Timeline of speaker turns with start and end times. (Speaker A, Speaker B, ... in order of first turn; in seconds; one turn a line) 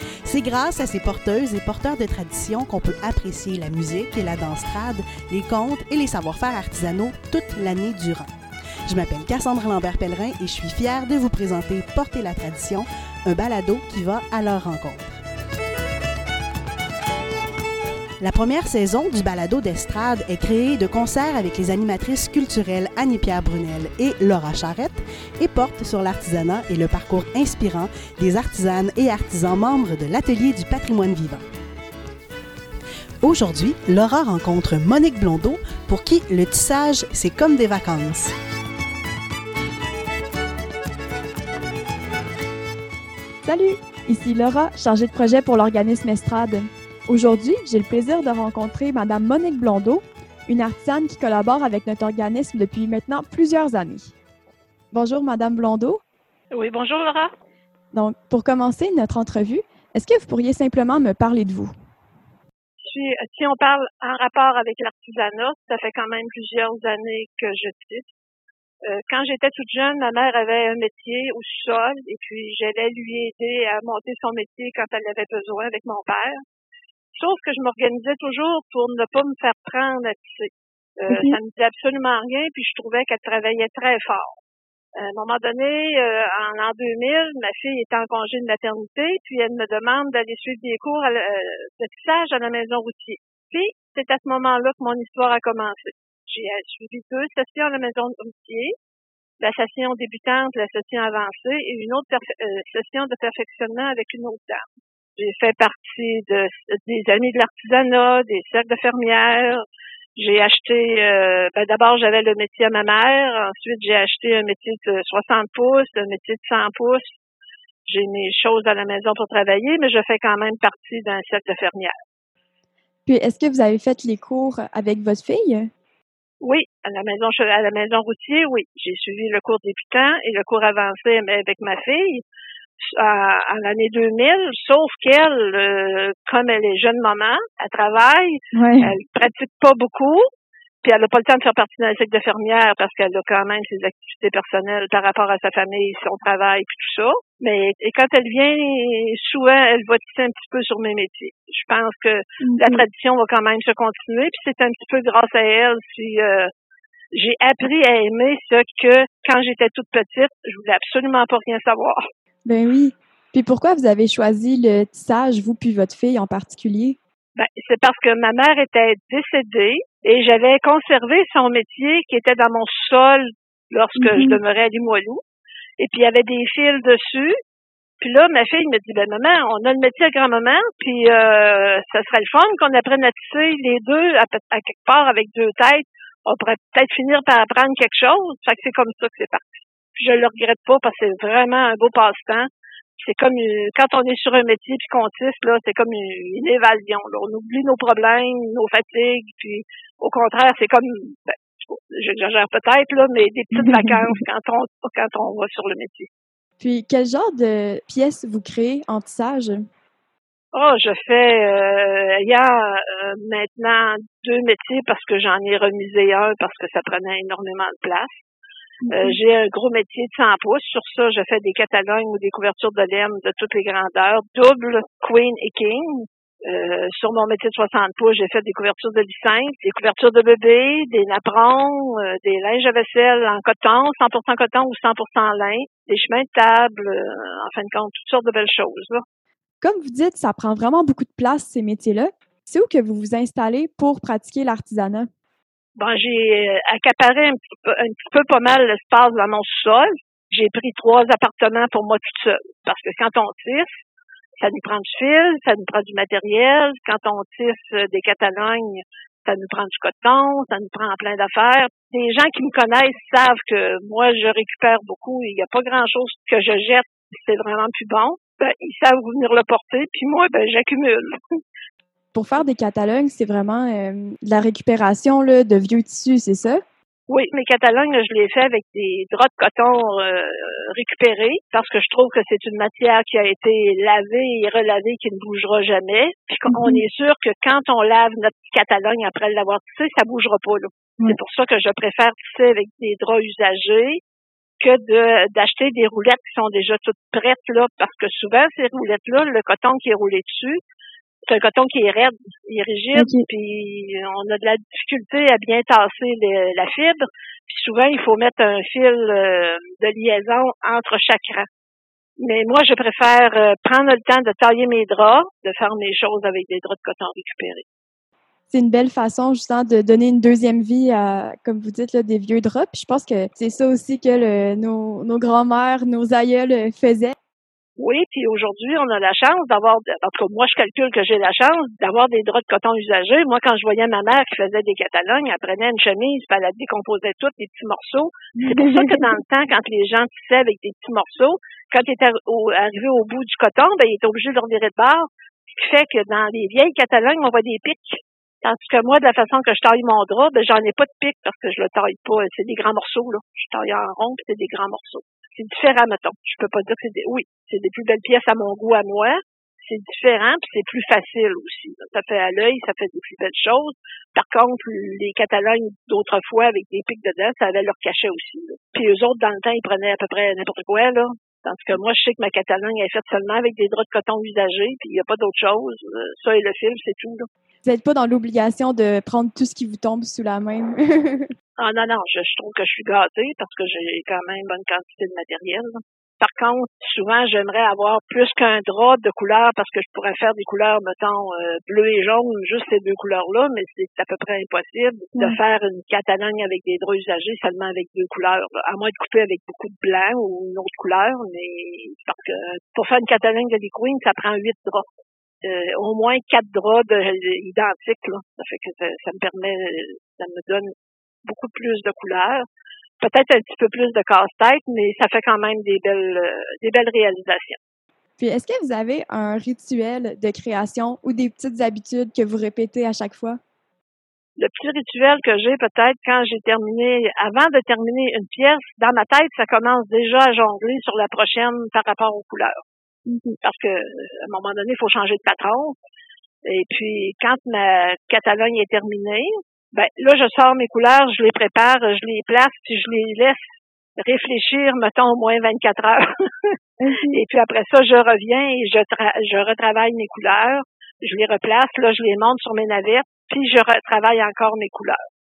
Speaker A: 0.2-8.3
Speaker A: 8.9-15.2
Speaker A: 18.2-31.4
Speaker A: 33.2-38.3
Speaker B: 43.4-54.1
Speaker B: 54.9-56.0
Speaker C: 56.5-57.3
Speaker B: 57.9-61.7
Speaker C: 62.8-68.1
Speaker C: 68.8-76.4
Speaker C: 77.1-84.4
Speaker B: 81.1-81.4
Speaker C: 85.0-98.8
Speaker C: 99.4-109.6
Speaker C: 110.2-117.2
Speaker C: 117.8-121.9
Speaker B: 123.1-125.7
Speaker C: 126.4-132.2
Speaker C: 132.9-140.2
Speaker B: 138.5-138.9
Speaker C: 140.8-156.5
Speaker B: 152.4-152.8
Speaker C: 157.1-162.0
Speaker B: 162.5-167.0
Speaker C: 167.3-175.2
Speaker B: 174.0-174.4
Speaker C: 175.8-177.4
Speaker C: 178.0-206.1
Speaker B: 203.6-204.2
Speaker B: 206.6-209.7
Speaker C: 210.5-218.2
Speaker B: 218.8-219.2
Speaker C: 218.9-239.0
Speaker B: 239.6-245.1
Speaker C: 245.8-253.7
Speaker C: 254.4-271.4
Speaker B: 272.1-276.6
Speaker C: 277.1-294.0
Speaker B: 286.5-286.8
Speaker C: 294.6-300.6
Speaker C: 301.2-311.5
Speaker B: 302.9-303.3
Speaker C: 312.2-317.6
Speaker B: 318.5-327.1
Speaker C: 327.8-377.3
Speaker B: 338.4-339.2
Speaker B: 377.6-381.3
Speaker C: 381.6-410.7
Speaker B: 395.1-395.4
Speaker C: 411.2-412.4
Speaker C: 413.0-417.6
Speaker B: 418.2-423.4
Speaker C: 424.4-432.6
Speaker B: 433.1-433.4
Speaker C: 433.4-435.8
Speaker C: 436.4-446.6
Speaker B: 446.8-447.2
Speaker C: 447.1-455.0